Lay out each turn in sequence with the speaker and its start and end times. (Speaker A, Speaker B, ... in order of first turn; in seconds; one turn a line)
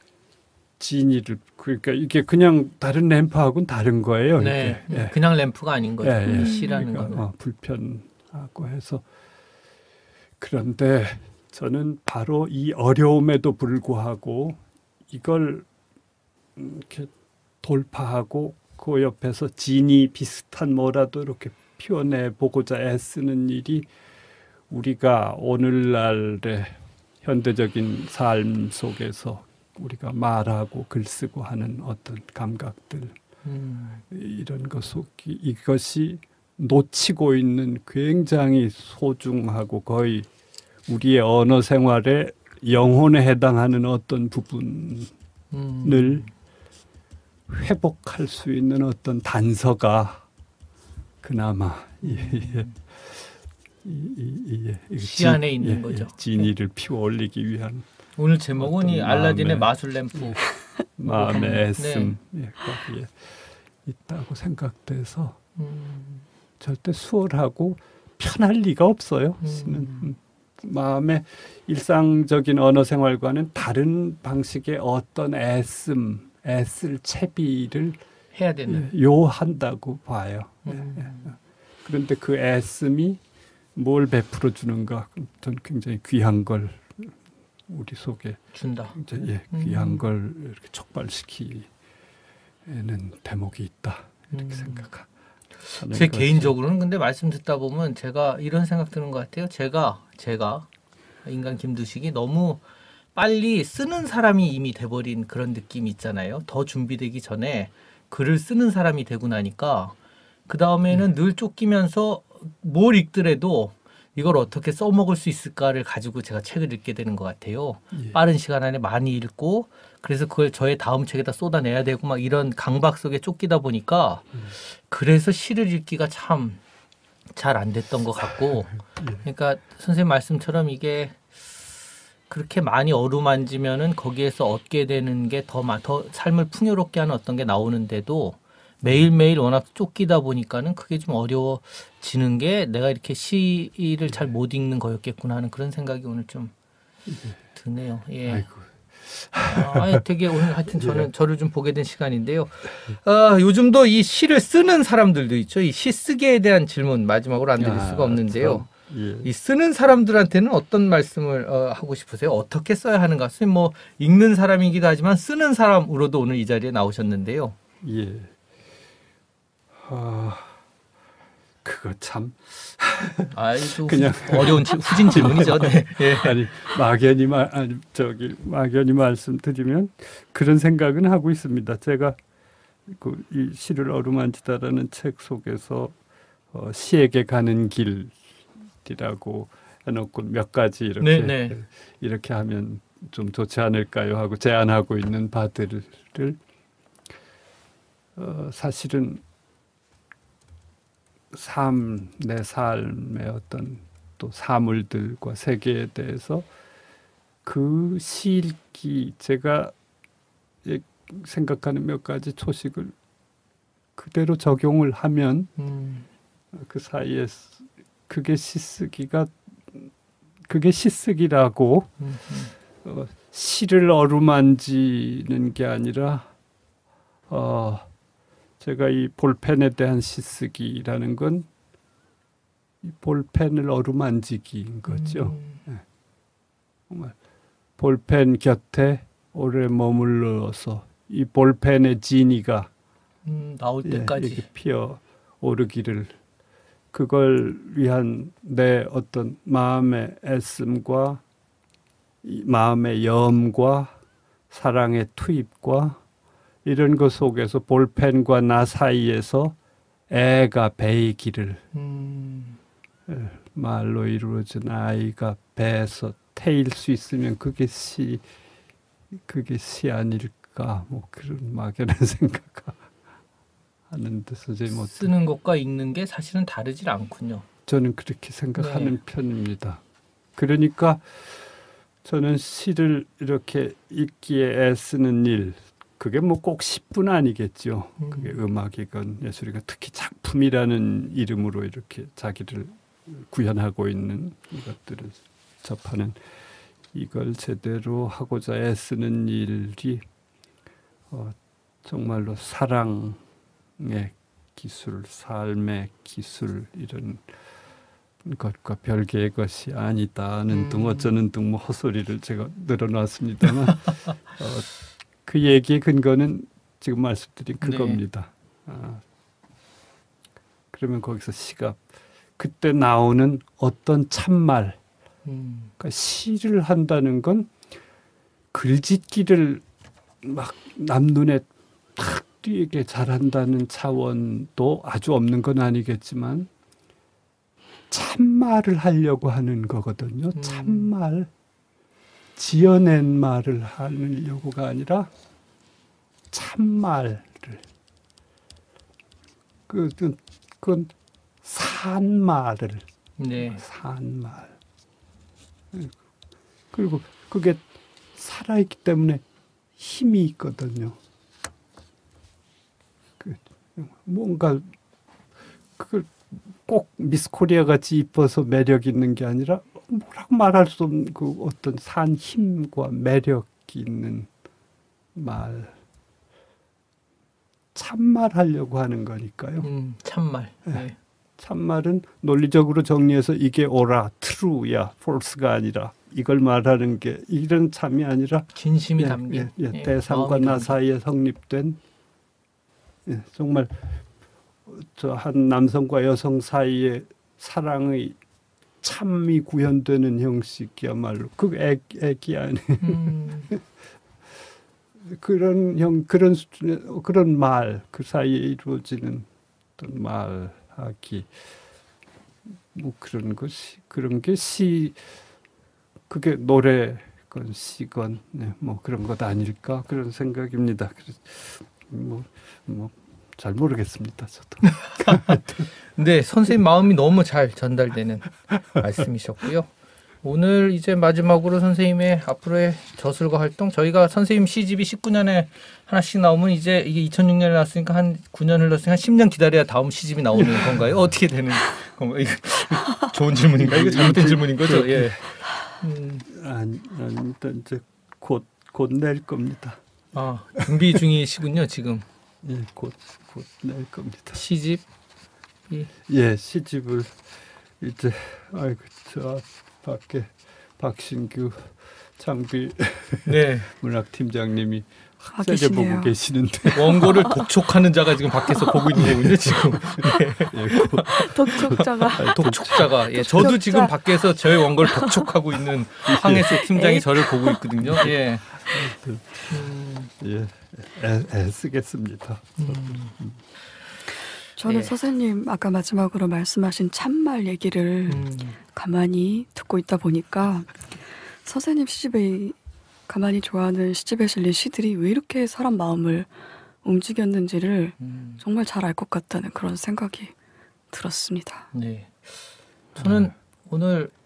Speaker A: 0.8-5.2
Speaker B: 4.4-7.2
Speaker A: 6.0-9.0
Speaker C: 6.2-6.7
Speaker A: 10.4-15.7
Speaker A: 16.6-17.1
Speaker A: 17.6-23.9
Speaker A: 24.7-33.1
Speaker B: 33.4-34.0
Speaker A: 34.1-40.3
Speaker A: 40.9-45.1
Speaker B: 45.5-46.3
Speaker A: 45.8-46.2
Speaker A: 47.5-50.2
Speaker A: 51.2-57.9
Speaker B: 52.0-52.7
Speaker B: 55.0-56.5
Speaker B: 58.2-60.5
Speaker A: 58.6-60.4
Speaker A: 61.0-65.4
Speaker B: 61.0-62.2
Speaker B: 65.6-66.2
Speaker A: 66.6-78.0
Speaker B: 69.4-70.2
Speaker B: 78.3-78.9
Speaker A: 78.7-81.2
Speaker B: 80.6-81.3
Speaker A: 81.8-83.2
Speaker A: 83.8-87.2
Speaker A: 87.7-91.7
Speaker B: 88.5-89.0
Speaker B: 89.5-90.0
Speaker A: 92.7-95.1
Speaker B: 94.3-94.8
Speaker B: 95.7-100.7
Speaker A: 95.7-96.5
Speaker B: 101.2-102.6
Speaker B: 103.1-110.0
Speaker B: 110.5-126.6
Speaker A: 117.9-118.2
Speaker B: 127.3-131.4
Speaker A: 128.7-129.2
Speaker B: 132.3-146.5
Speaker A: 138.8-139.1
Speaker A: 147.1-147.4
Speaker B: 147.5-148.4
Speaker A: 148.2-151.1
Speaker B: 149.4-158.7
Speaker A: 157.6-159.3
Speaker B: 159.2-167.6
Speaker A: 167.8-168.3
Speaker A: 169.8-170.6
Speaker A: 171.6-182.2
Speaker B: 173.3-176.5
Speaker A: 182.9-185.9
Speaker A: 186.5-188.2
Speaker A: 188.8-196.4
Speaker B: 191.0-191.6
Speaker A: 198.2-199.2
Speaker A: 201.3-206.5
Speaker A: 207.4-209.7
Speaker A: 210.6-212.9
Speaker A: 214.0-215.5
Speaker B: 215.6-216.1
Speaker A: 216.5-219.9
Speaker A: 220.5-221.9
Speaker B: 222.0-222.5
Speaker A: 222.8-226.3
Speaker A: 227.3-227.9
Speaker A: 228.6-231.5
Speaker A: 232.8-235.8
Speaker B: 234.9-235.6
Speaker A: 236.9-237.2
Speaker A: 237.8-242.7
Speaker B: 243.2-244.5
Speaker A: 243.8-246.2
Speaker A: 246.9-251.2
Speaker A: 252.2-253.9
Speaker A: 254.5-256.0
Speaker A: 256.6-259.6
Speaker A: 260.1-261.6
Speaker B: 261.7-262.6
Speaker A: 263.1-268.2
Speaker A: 269.1-272.8
Speaker A: 273.9-275.1
Speaker B: 274.7-277.4
Speaker A: 277.7-279.8
Speaker B: 278.6-278.9
Speaker A: 280.4-281.5
Speaker A: 282.0-296.2
Speaker B: 288.0-288.4
Speaker A: 296.9-300.0
Speaker A: 301.1-303.2
Speaker A: 303.8-307.2
Speaker A: 308.2-314.7
Speaker B: 310.5-311.1
Speaker A: 315.2-319.0
Speaker B: 317.6-318.0
Speaker A: 320.7-321.8
Speaker A: 322.4-324.8
Speaker B: 325.2-325.7
Speaker A: 325.8-327.5
Speaker A: 328.5-329.6
Speaker A: 330.2-336.5
Speaker A: 337.9-341.3
Speaker B: 340.3-340.9
Speaker A: 342.4-345.1
Speaker A: 346.3-347.6
Speaker A: 349.7-352.9
Speaker B: 353.2-353.6
Speaker A: 353.4-354.6
Speaker A: 356.7-359.2
Speaker A: 359.8-361.0
Speaker A: 363.2-364.7
Speaker A: 365.8-374.3
Speaker A: 375.1-375.8
Speaker A: 377.7-379.7
Speaker B: 379.6-381.0
Speaker A: 381.4-391.8
Speaker B: 388.5-390.8
Speaker A: 393.1-394.0
Speaker A: 394.6-398.2
Speaker A: 398.8-403.6
Speaker B: 402.8-403.5
Speaker A: 405.0-411.4
Speaker A: 412.7-415.0
Speaker A: 416.1-425.7
Speaker B: 424.6-425.4
Speaker B: 425.9-429.7
Speaker B: 430.2-446.2
Speaker A: 440.3-440.9
Speaker A: 443.5-445.3
Speaker A: 446.3-449.8
Speaker B: 450.1-452.0
Speaker A: 450.6-451.0
Speaker A: 452.4-454.4
Speaker B: 454.3-454.8
Speaker A: 456.1-457.2
Speaker A: 457.8-467.4
Speaker B: 463.2-463.7
Speaker C: 465.3-466.1
Speaker B: 466.7-478.5
Speaker A: 469.0-473.5
Speaker C: 471.1-475.2
Speaker A: 476.1-476.5
Speaker C: 476.5-477.6
Speaker A: 477.8-479.3
Speaker B: 479.5-480.1
Speaker A: 480.2-483.4
Speaker B: 482.6-483.1
Speaker C: 484.6-490.9
Speaker B: 484.6-484.9
Speaker B: 488.1-488.6
Speaker C: 491.4-492.5
Speaker C: 493.1-496.3
Speaker C: 496.8-500.3
Speaker B: 498.0-498.4
Speaker C: 500.9-501.7
Speaker B: 501.7-504.1
Speaker A: 502.9-503.3